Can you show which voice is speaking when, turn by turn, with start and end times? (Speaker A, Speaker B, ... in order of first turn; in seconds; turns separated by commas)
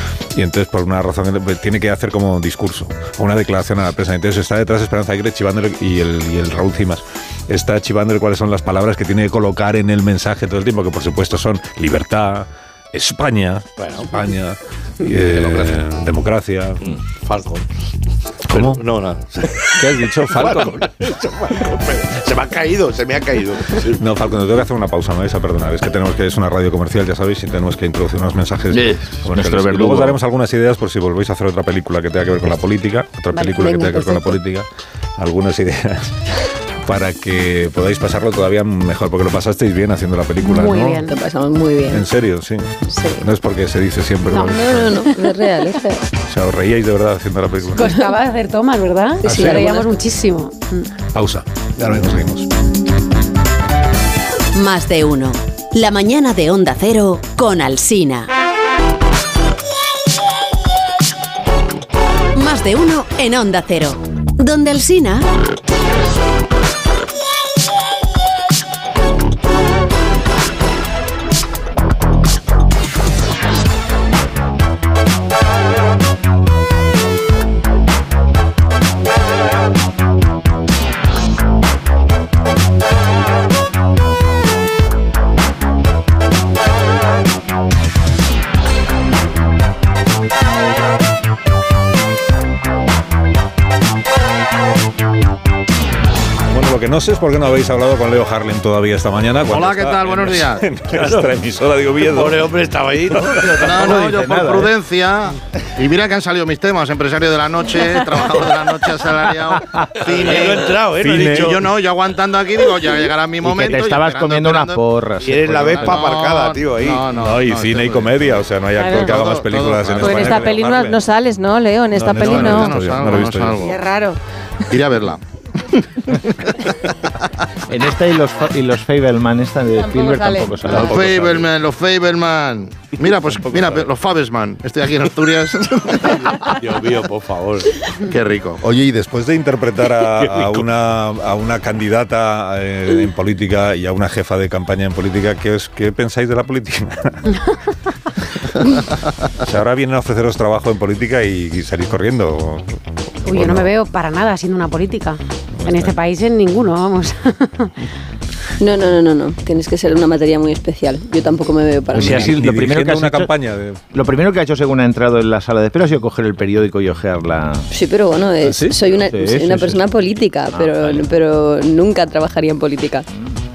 Speaker A: 0.3-17.0, Speaker B: 13.8-14.1, Speaker B: 15.2-15.8, Speaker B: 16.8-17.6, Speaker A: 18.5-18.8, Speaker B: 18.5-24.0, Speaker A: 19.7-20.9, Speaker A: 23.9-41.1, Speaker C: 28.7-30.2, Speaker D: 33.4-34.0, Speaker E: 33.4-34.4, Speaker D: 40.4-41.1, Speaker E: 41.1-42.1, Speaker A: 41.9-45.0, Speaker E: 42.9-43.3, Speaker D: 44.3-45.2, Speaker E: 44.4-46.0, Speaker A: 46.3-47.9, Speaker D: 47.8-50.9, Speaker E: 49.2-50.0, Speaker A: 49.3-49.6, Speaker A: 51.1-52.5, Speaker F: 54.5-58.3, Speaker F: 62.3-65.3, Speaker A: 96.5-102.5, Speaker G: 99.5-100.7, Speaker B: 100.9-101.3, Speaker B: 102.1-103.5, Speaker C: 103.2-104.7, Speaker G: 103.5-114.8, Speaker B: 110.1-111.7, Speaker A: 111.0-111.7, Speaker C: 113.4-116.0, Speaker B: 115.2-117.1, Speaker G: 115.5-120.6, Speaker A: 117.2-121.0, Speaker H: 118.8-119.2, Speaker H: 120.0-123.0, Speaker A: 121.9-123.7, Speaker G: 122.1-123.8, Speaker H: 123.5-124.2, Speaker G: 124.7-125.2, Speaker G: 125.8-126.6, Speaker C: 127.7-131.5, Speaker H: 129.8-130.8, Speaker G: 130.7-136.6, Speaker B: 136.5-137.8, Speaker G: 137.9-138.6, Speaker A: 138.6-147.4, Speaker B: 140.1-140.6, Speaker A: 149.4-153.7, Speaker D: 153.3-157.7, Speaker A: 155.6-156.0, Speaker E: 158.6-162.4, Speaker A: 161.9-163.8, Speaker C: 161.9-163.3, Speaker C: 163.9-167.7, Speaker E: 167.7-173.1, Speaker A: 168.4-168.8, Speaker C: 169.0-169.8, Speaker C: 170.5-171.0